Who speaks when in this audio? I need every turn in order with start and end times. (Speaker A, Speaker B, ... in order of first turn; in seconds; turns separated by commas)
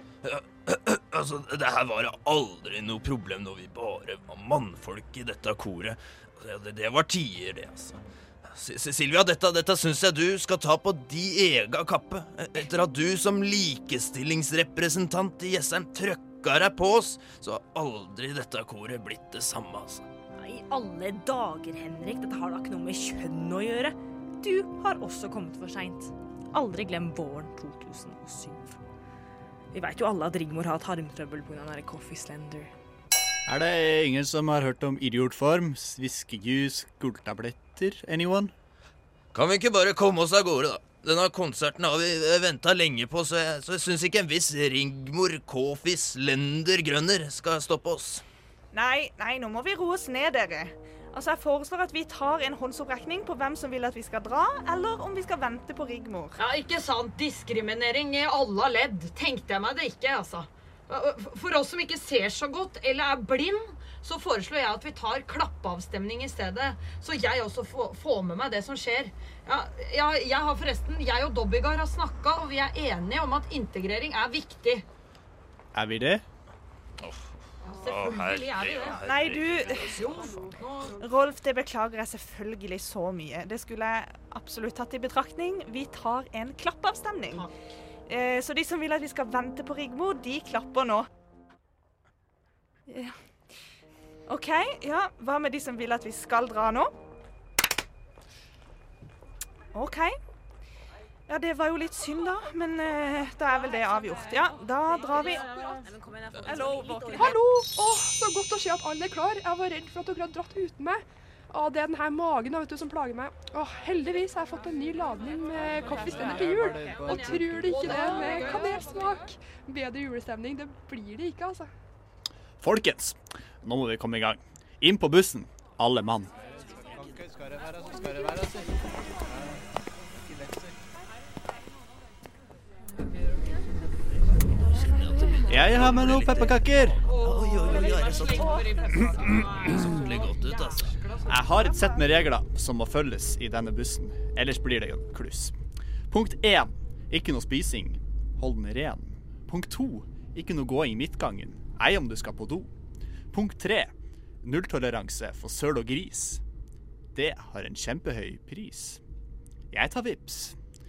Speaker A: 0.2-20.1, Speaker B: 20.4-28.8, Speaker B: 29.7-32.7, Speaker C: 33.5-38.5, Speaker A: 39.3-48.2, Speaker D: 48.7-56.4, Speaker E: 56.4-74.8, Speaker C: 75.7-76.2, Speaker E: 77.6-79.1, Speaker A: 77.8-80.1, Speaker D: 78.9-87.5, Speaker E: 79.7-81.0, Speaker D: 88.1-91.1, Speaker D: 92.9-93.2, Speaker D: 94.3-96.9, Speaker D: 99.7-100.1, Speaker D: 101.3-105.5, Speaker D: 106.4-107.4, Speaker F: 107.1-121.7, Speaker E: 116.1-118.8, Speaker C: 122.6-126.3, Speaker A: 134.9-136.5, Speaker C: 135.5-137.0, Speaker E: 135.6-135.8, Speaker E: 136.9-141.7, Speaker A: 137.2-138.5, Speaker C: 139.0-139.4, Speaker A: 139.7-140.9, Speaker C: 141.3-145.6, Speaker C: 146.1-152.7, Speaker C: 153.3-156.4, Speaker C: 157.1-159.0, Speaker C: 159.7-160.6